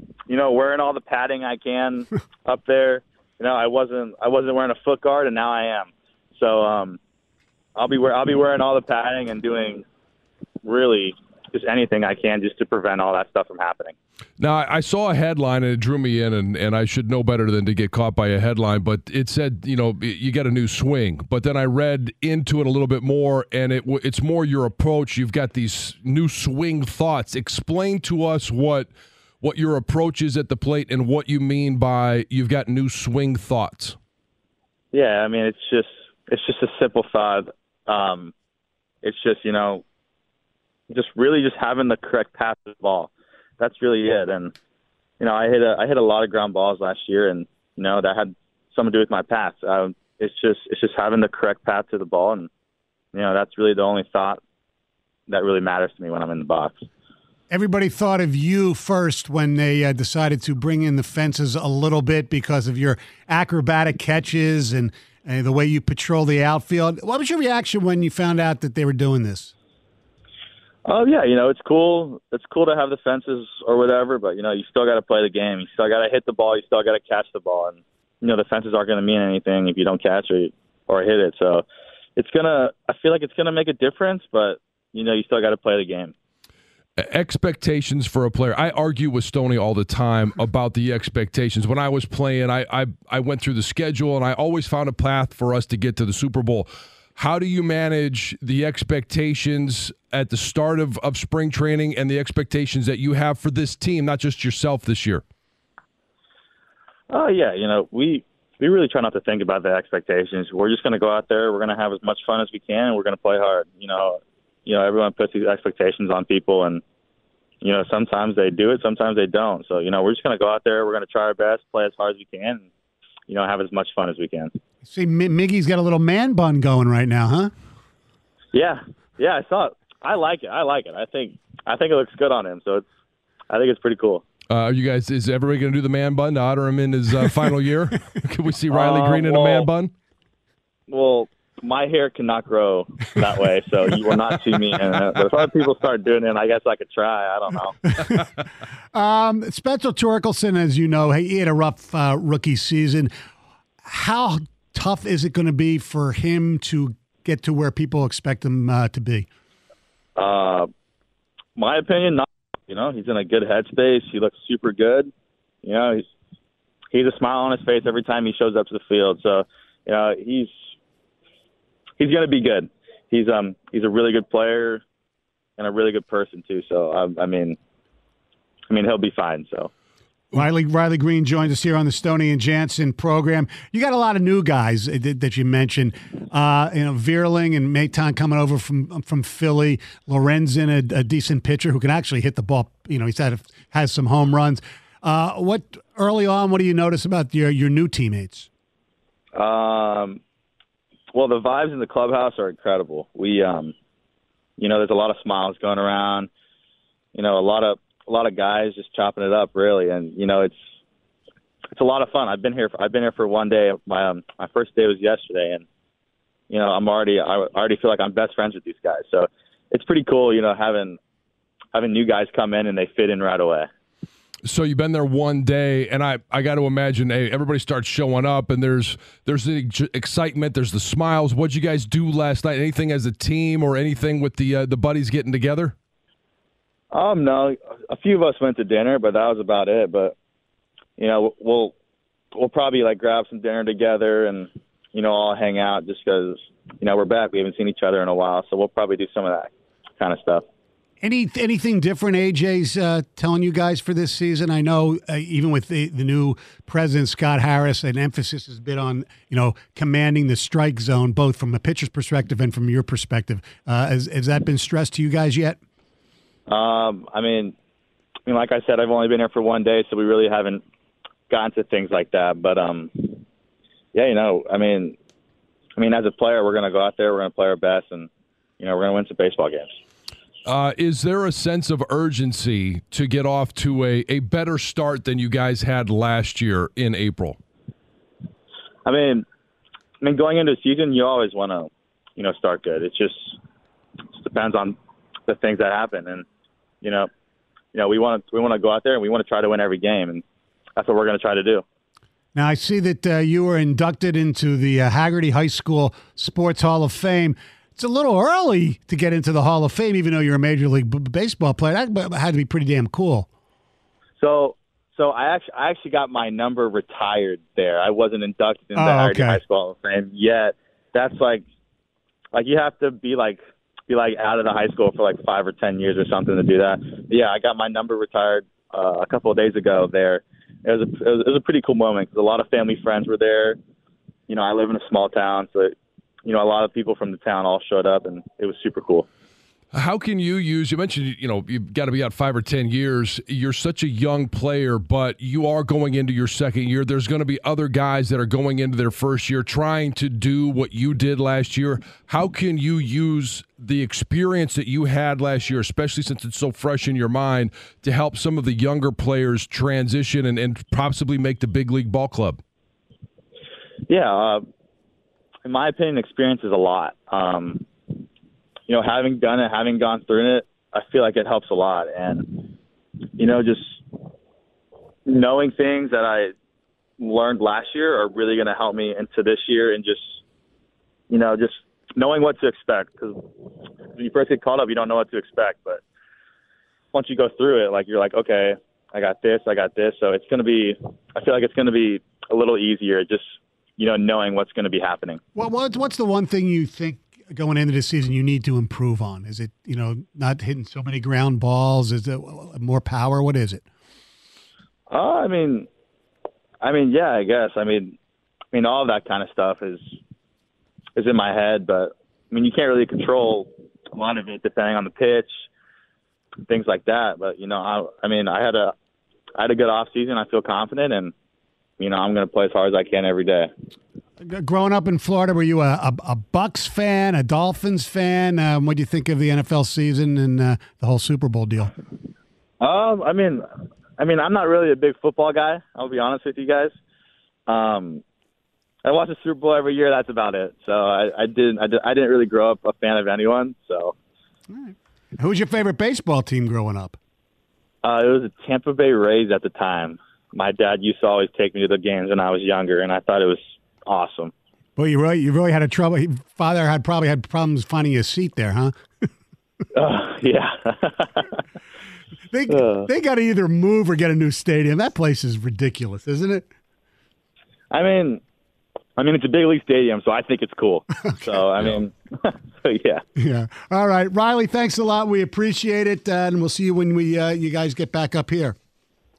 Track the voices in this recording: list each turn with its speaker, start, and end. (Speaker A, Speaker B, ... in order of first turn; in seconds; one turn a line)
Speaker A: 0.3-7.0
Speaker A: 7.8-9.8
Speaker A: 10.6-13.9
Speaker B: 14.4-34.0
Speaker A: 34.9-38.3
Speaker A: 39.0-39.8
Speaker A: 40.9-44.5
Speaker A: 45.2-52.5
Speaker A: 53.1-54.4
Speaker A: 55.3-56.8
Speaker C: 57.5-69.5
Speaker A: 70.8-81.6
Speaker A: 82.2-86.1
Speaker B: 87.0-105.2
Speaker A: 107.1-116.8
Speaker A: 117.6-122.7
Speaker A: 123.3-124.5
Speaker C: 124.8-127.5
Speaker A: 128.5-132.8
Speaker A: 133.5-134.2
Speaker B: 134.5-139.9
Speaker A: 138.7-139.7
Speaker A: 140.9-147.8
Speaker C: 148.0-148.2
Speaker C: 148.9-153.1
Speaker C: 153.8-159.3
Speaker A: 160.2-160.7
Speaker A: 161.6-165.1
Speaker A: 165.6-166.0
Speaker A: 166.9-170.5
Speaker A: 172.0-174.8
Speaker A: 175.6-177.6
Speaker A: 178.7-179.7
Speaker C: 180.3-198.5
Speaker A: 199.3-200.2
Speaker A: 201.1-203.7
Speaker A: 204.6-206.3
Speaker A: 207.1-210.6
Speaker A: 211.7-215.6
Speaker A: 216.5-221.0
Speaker A: 221.7-223.7
Speaker B: 224.4-235.7
Speaker A: 236.9-240.1
Speaker A: 241.0-241.7
Speaker A: 242.3-250.4
Speaker C: 251.0-265.6
Speaker A: 266.5-267.5
Speaker A: 268.3-270.6
Speaker A: 271.3-273.2
Speaker A: 273.9-274.9
Speaker A: 275.8-278.1
Speaker A: 278.6-279.7
Speaker B: 280.4-287.4
Speaker A: 288.8-289.2
Speaker A: 290.0-293.4
Speaker A: 294.1-294.8
Speaker A: 295.3-296.2
Speaker A: 296.8-297.1
Speaker A: 297.7-300.2
Speaker A: 300.8-301.6
Speaker C: 302.3-313.3
Speaker A: 314.2-321.4
Speaker C: 318.7-319.4
Speaker A: 322.3-333.6
Speaker A: 334.3-335.7
Speaker A: 336.2-339.1
Speaker B: 339.7-362.4
Speaker A: 363.9-364.4
Speaker A: 365.4-367.6
Speaker A: 368.7-372.5
Speaker A: 373.2-373.8
Speaker A: 375.1-376.3
Speaker A: 377.0-380.2
Speaker A: 381.1-383.2
Speaker A: 383.9-385.8
Speaker A: 386.9-393.2
Speaker A: 393.8-395.2
Speaker C: 395.3-403.6
Speaker A: 404.9-405.7
Speaker A: 406.6-408.0
Speaker A: 408.5-410.0
Speaker A: 410.9-415.3
Speaker A: 416.5-418.7
Speaker A: 419.4-421.1
Speaker A: 421.8-423.5
Speaker C: 424.2-431.7
Speaker A: 432.6-433.4
Speaker A: 434.0-436.7
Speaker A: 437.5-438.0
Speaker A: 438.8-443.9
Speaker C: 444.5-447.0
Speaker A: 447.8-454.3
Speaker C: 454.8-458.7
Speaker A: 459.7-461.3
Speaker C: 462.3-466.5
Speaker A: 462.5-462.9
Speaker A: 467.7-468.2
Speaker A: 469.0-473.0
Speaker C: 471.0-471.4
Speaker C: 473.2-478.6